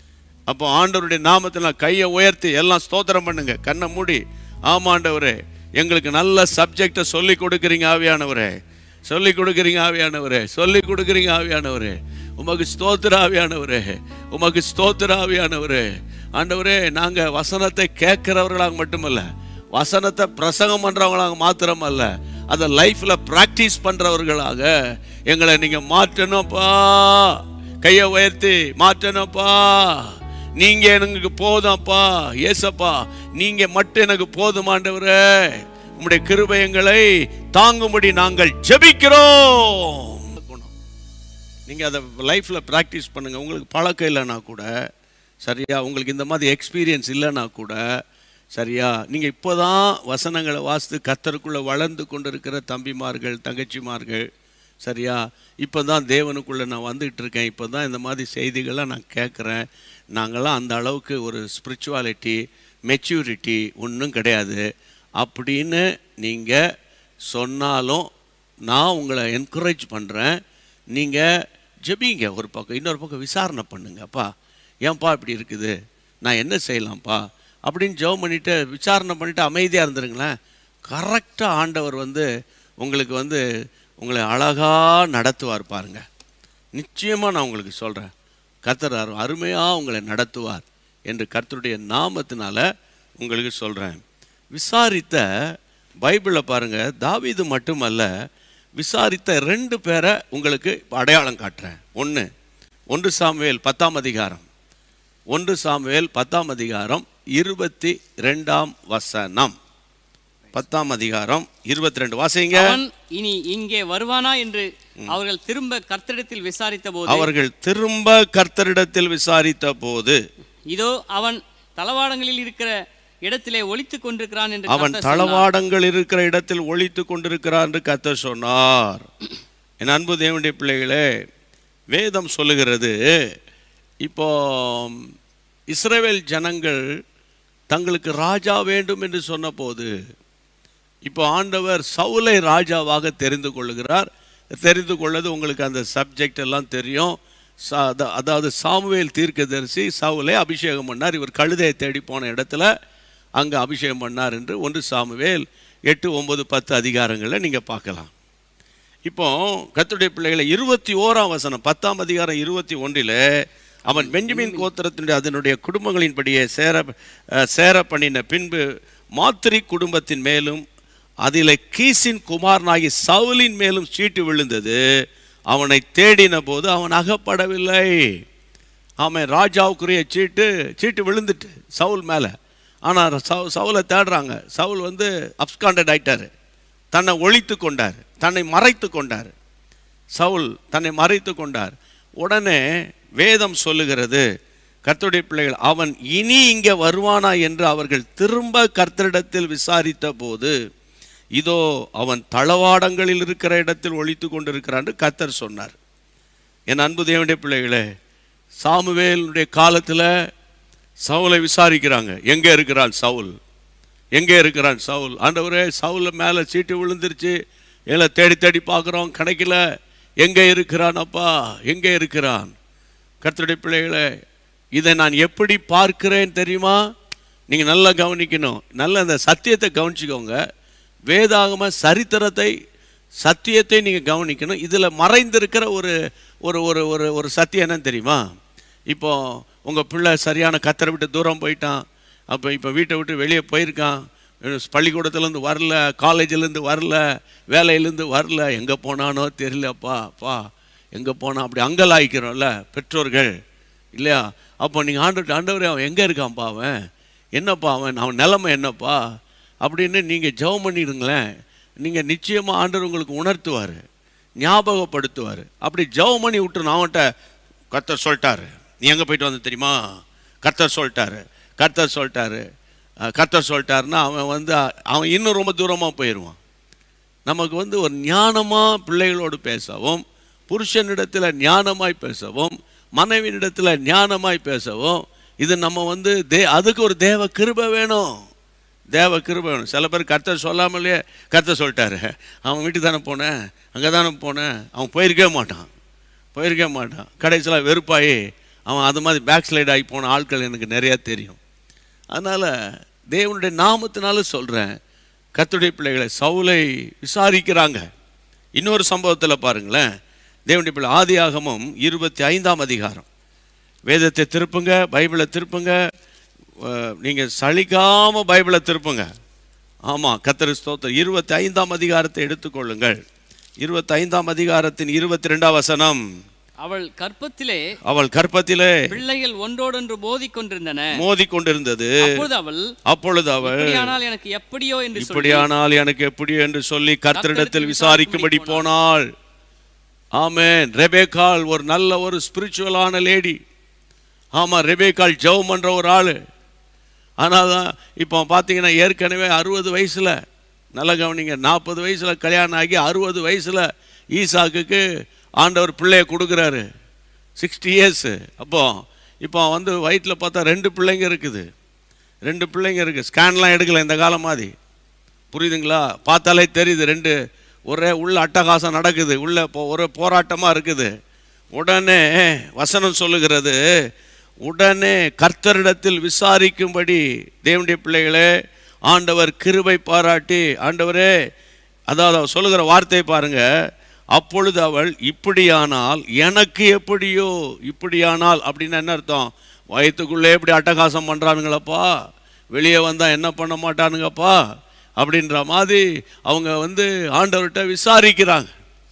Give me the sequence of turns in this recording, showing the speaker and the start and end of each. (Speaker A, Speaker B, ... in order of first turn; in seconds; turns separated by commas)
Speaker A: 0.5-8.5, Speaker A: 9.1-15.8, Speaker A: 16.4-24.7, Speaker A: 25.3-30.1, Speaker A: 30.6-40.7, Speaker A: 41.7-44.7, Speaker A: 45.4-47.8, Speaker A: 48.5-54.2, Speaker A: 54.8-59.6, Speaker A: 60.2-62.4, Speaker A: 62.9-64.6, Speaker A: 65.2-66.6, Speaker A: 67.3-68.1, Speaker A: 68.7-70.3, Speaker A: 70.9-71.2, Speaker A: 71.9-74.3, Speaker A: 74.8-75.7, Speaker A: 76.2-80.3, Speaker A: 80.9-82.2, Speaker A: 82.8-83.4, Speaker A: 84.0-86.0, Speaker A: 86.8-88.1, Speaker A: 88.7-92.6, Speaker A: 93.2-94.0, Speaker A: 94.5-95.2, Speaker A: 96.0-98.1, Speaker A: 98.8-102.3, Speaker A: 102.9-104.5, Speaker A: 105.3-109.5, Speaker A: 110.5-112.8, Speaker B: 112.5-117.3, Speaker A: 117.1-120.2, Speaker B: 120.7-122.7, Speaker B: 123.2-125.4, Speaker A: 124.7-129.1, Speaker A: 129.8-131.0, Speaker A: 131.9-132.9, Speaker A: 134.0-135.0, Speaker A: 135.7-136.8, Speaker A: 137.7-139.9, Speaker A: 141.1-147.2, Speaker A: 147.7-152.7, Speaker A: 153.4-158.1, Speaker A: 159.1-163.2, Speaker A: 163.9-166.9, Speaker B: 163.9-164.7, Speaker A: 167.5-168.6, Speaker A: 169.2-170.6, Speaker A: 171.2-174.8, Speaker A: 175.5-178.1, Speaker A: 179.0-182.3, Speaker A: 182.9-186.3, Speaker A: 186.9-189.3, Speaker A: 190.2-192.6, Speaker A: 193.2-194.2, Speaker A: 194.8-200.5, Speaker A: 201.4-205.8, Speaker A: 206.7-207.8, Speaker A: 208.6-210.1, Speaker A: 211.1-213.3, Speaker A: 214.2-217.3, Speaker A: 217.9-219.6, Speaker A: 220.2-222.5, Speaker A: 223.2-224.1, Speaker A: 224.8-226.8, Speaker A: 227.5-230.4, Speaker A: 231.1-232.5, Speaker A: 233.2-235.9, Speaker A: 236.4-238.2, Speaker A: 238.9-241.8, Speaker A: 242.3-250.4, Speaker A: 250.9-253.3, Speaker A: 253.9-256.7, Speaker A: 257.4-259.0, Speaker A: 259.6-261.2, Speaker A: 261.8-263.8, Speaker A: 264.4-267.0, Speaker A: 267.7-269.8, Speaker A: 270.4-272.4, Speaker A: 273.1-276.4, Speaker A: 277.3-288.1, Speaker A: 288.9-295.7, Speaker A: 296.3-301.4, Speaker A: 302.1-302.5, Speaker A: 303.1-304.7, Speaker A: 305.4-307.8, Speaker A: 308.6-309.8, Speaker A: 310.5-313.1, Speaker A: 313.9-315.8, Speaker A: 316.6-319.1, Speaker A: 319.9-323.0, Speaker A: 323.6-326.0, Speaker B: 326.6-327.6, Speaker A: 327.9-328.8, Speaker B: 328.9-330.9, Speaker A: 330.9-332.1, Speaker B: 332.0-332.7, Speaker A: 332.9-333.9, Speaker B: 333.4-335.5, Speaker A: 335.0-339.1, Speaker B: 337.1-338.7, Speaker A: 340.2-343.4, Speaker A: 344.4-346.1, Speaker A: 347.2-350.1, Speaker A: 350.7-354.8, Speaker A: 355.4-356.6, Speaker A: 357.4-358.7, Speaker A: 359.2-361.4, Speaker A: 362.3-364.5, Speaker A: 365.3-367.1, Speaker A: 367.7-370.9, Speaker A: 371.6-373.6, Speaker A: 374.4-378.3, Speaker A: 378.9-381.1, Speaker A: 381.9-383.4, Speaker A: 384.1-391.9, Speaker A: 392.5-394.4, Speaker A: 395.0-398.5